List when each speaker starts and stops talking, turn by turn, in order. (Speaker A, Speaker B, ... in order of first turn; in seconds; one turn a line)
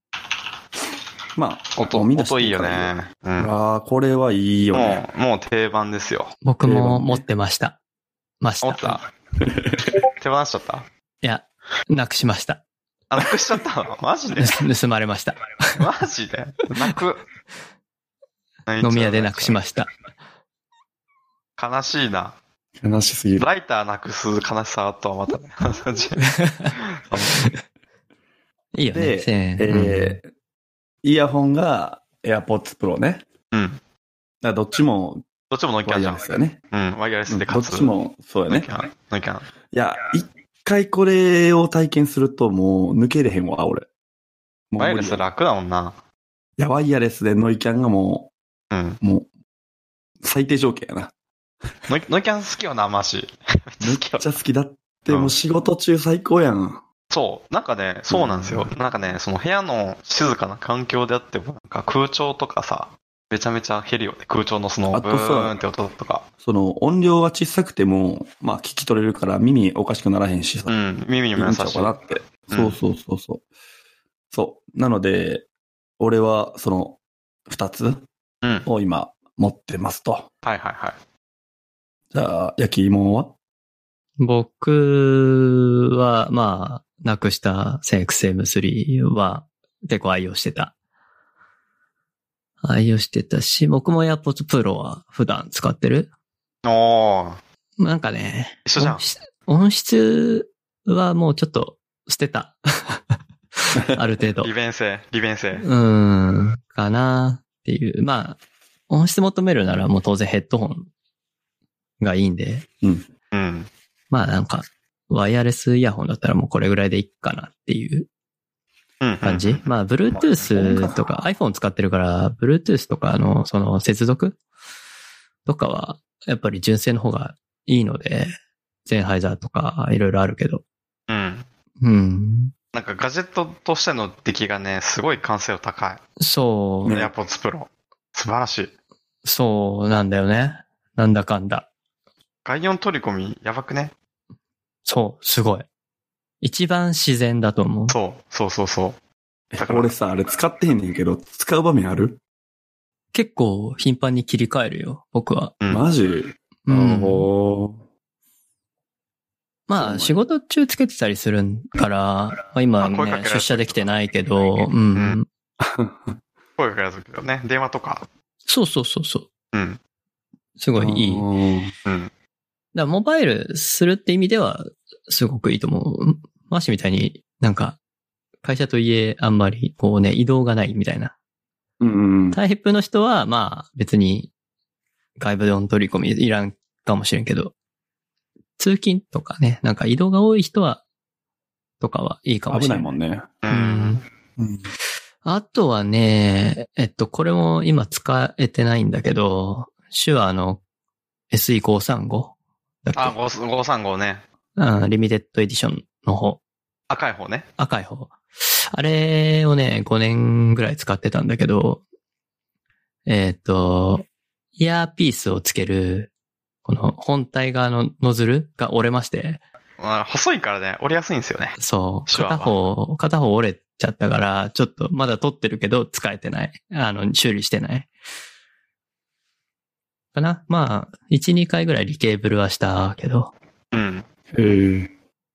Speaker A: 1.4-5.0
Speaker B: 1.8-3.5
Speaker B: 4.7-6.4
Speaker C: 6.4-7.8
Speaker A: 6.6-7.2
Speaker C: 8.4-9.0
Speaker B: 8.6-9.1
Speaker A: 9.4-9.9
Speaker B: 10.2-10.9
Speaker C: 11.2-12.6
Speaker B: 13.1-14.6
Speaker C: 14.4-15.8
Speaker B: 15.8-17.2
Speaker B: 18.7-19.6
Speaker C: 18.8-19.9
Speaker B: 21.6-22.4
Speaker A: 22.8-23.5
Speaker B: 23.4-27.4
Speaker C: 26.2-27.6
Speaker C: 28.7-30.2
Speaker A: 28.9-30.3
Speaker A: 31.0-33.2
Speaker B: 33.5-33.8
Speaker A: 34.4-35.2
Speaker B: 35.5-37.9
Speaker A: 35.9-36.6
Speaker A: 37.3-38.7
Speaker B: 38.5-39.5
Speaker A: 39.7-43.9
Speaker A: 44.7-45.2
Speaker B: 44.8-46.0
Speaker A: 46.6-48.3
Speaker B: 48.7-49.0
Speaker A: 49.0-49.3
Speaker A: 50.2-51.1
Speaker B: 51.9-54.2
Speaker A: 53.8-56.8
Speaker B: 55.1-55.3
Speaker B: 57.1-66.3
Speaker A: 58.1-58.7
Speaker A: 64.9-65.6
Speaker A: 66.4-70.7
Speaker B: 70.7-72.8
Speaker A: 71.4-73.4
Speaker A: 74.3-75.5
Speaker A: 76.0-78.1
Speaker A: 78.7-80.3
Speaker B: 80.4-81.0
Speaker A: 82.1-83.3
Speaker C: 84.2-90.7
Speaker C: 92.6-96.1
Speaker B: 96.6-97.4
Speaker C: 97.8-103.0
Speaker B: 98.7-99.0
Speaker C: 103.6-104.5
Speaker B: 104.4-105.7
Speaker C: 105.6-108.4
Speaker C: 108.9-110.9
Speaker C: 112.0-112.7
Speaker A: 112.8-113.1
Speaker B: 113.3-113.7
Speaker C: 114.1-118.1
Speaker B: 119.0-119.6
Speaker C: 119.2-124.4
Speaker A: 120.5-121.2
Speaker C: 125.5-128.3
Speaker C: 128.9-130.6
Speaker B: 131.1-131.5
Speaker C: 131.8-132.5
Speaker B: 132.7-136.0
Speaker C: 136.2-136.9
Speaker A: 136.8-137.1
Speaker B: 136.9-138.7
Speaker C: 139.2-141.7
Speaker B: 142.4-143.9
Speaker C: 144.9-145.7
Speaker C: 146.4-148.0
Speaker B: 147.9-149.0
Speaker A: 149.5-152.2
Speaker B: 149.6-149.9
Speaker C: 153.1-155.6
Speaker B: 155.6-155.9
Speaker A: 155.7-157.8
Speaker C: 156.7-157.3
Speaker C: 159.7-165.3
Speaker A: 159.8-160.2
Speaker B: 162.8-163.9
Speaker A: 165.6-166.2
Speaker B: 166.6-168.1
Speaker C: 168.5-169.3
Speaker B: 169.5-169.8
Speaker C: 170.6-171.3
Speaker A: 170.8-171.7
Speaker B: 171.9-172.1
Speaker C: 172.7-177.8
Speaker C: 178.4-181.1
Speaker A: 181.8-182.4
Speaker C: 182.3-184.3
Speaker C: 185.2-187.5
Speaker C: 188.6-190.8
Speaker C: 191.8-192.9
Speaker A: 192.5-193.3
Speaker B: 193.4-194.0
Speaker C: 193.5-194.0
Speaker A: 194.4-194.7
Speaker C: 195.2-200.6
Speaker C: 201.3-203.1
Speaker B: 203.0-204.2
Speaker C: 204.6-206.4
Speaker B: 206.9-207.5
Speaker C: 207.6-211.8
Speaker C: 213.1-214.1
Speaker C: 214.6-216.1
Speaker C: 216.6-219.4
Speaker B: 219.8-222.6
Speaker C: 221.6-227.9
Speaker C: 230.1-233.3
Speaker B: 233.7-234.1
Speaker A: 234.3-234.9